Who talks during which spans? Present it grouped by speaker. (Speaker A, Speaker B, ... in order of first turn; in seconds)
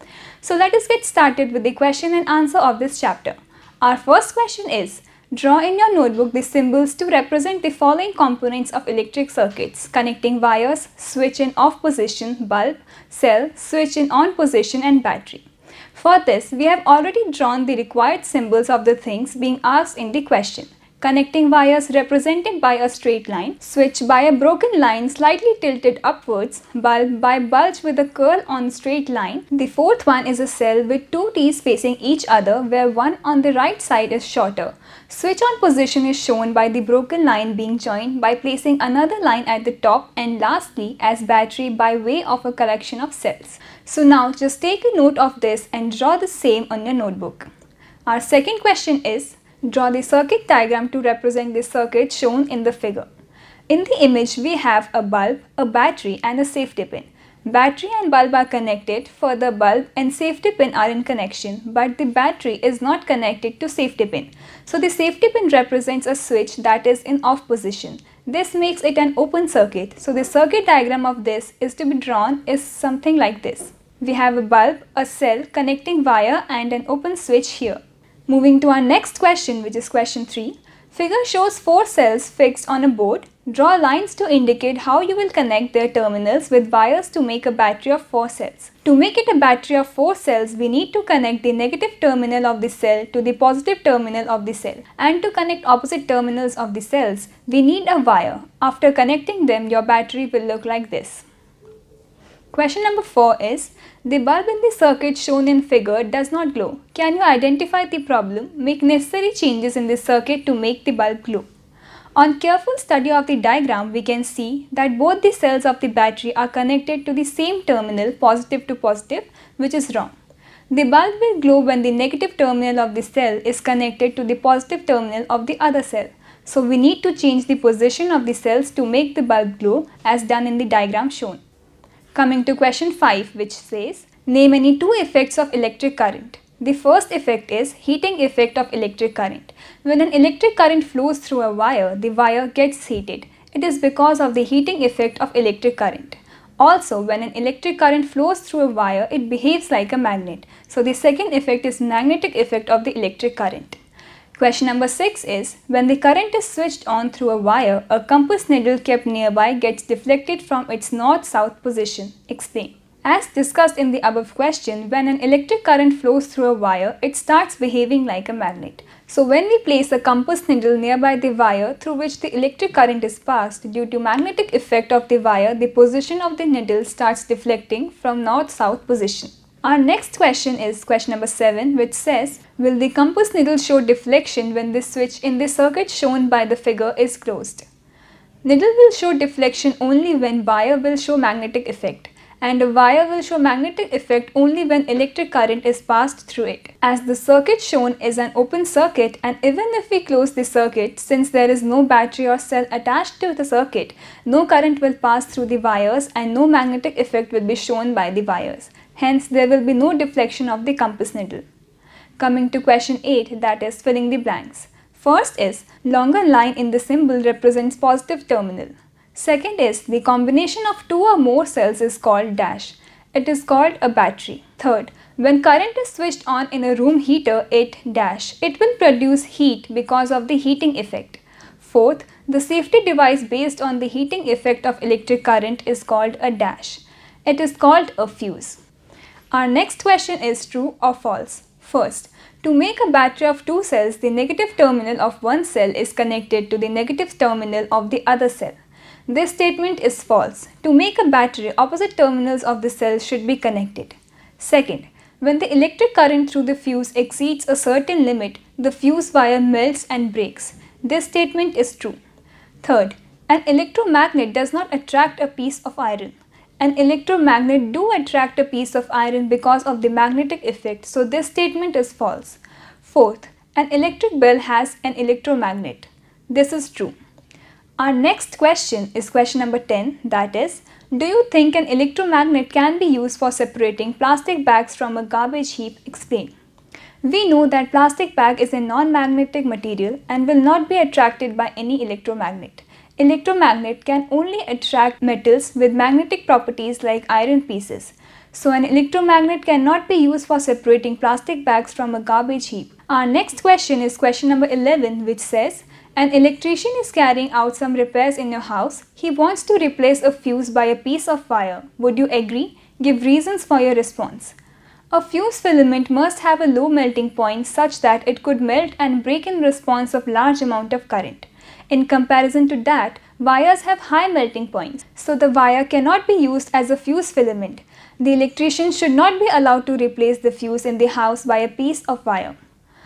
Speaker A: 0.4-47.5, 48.1-53.1, 53.7-101.3, 102.5-111.5, 112.2-120.1, 120.7-131.4, 132.1-153.8, 154.4-187.7, 188.4-211.4, 212.2-238.6, 239.3-248.6, 249.1-262.0, 262.6-276.9, 277.8-286.3, 287.0-314.4, 314.9-332.4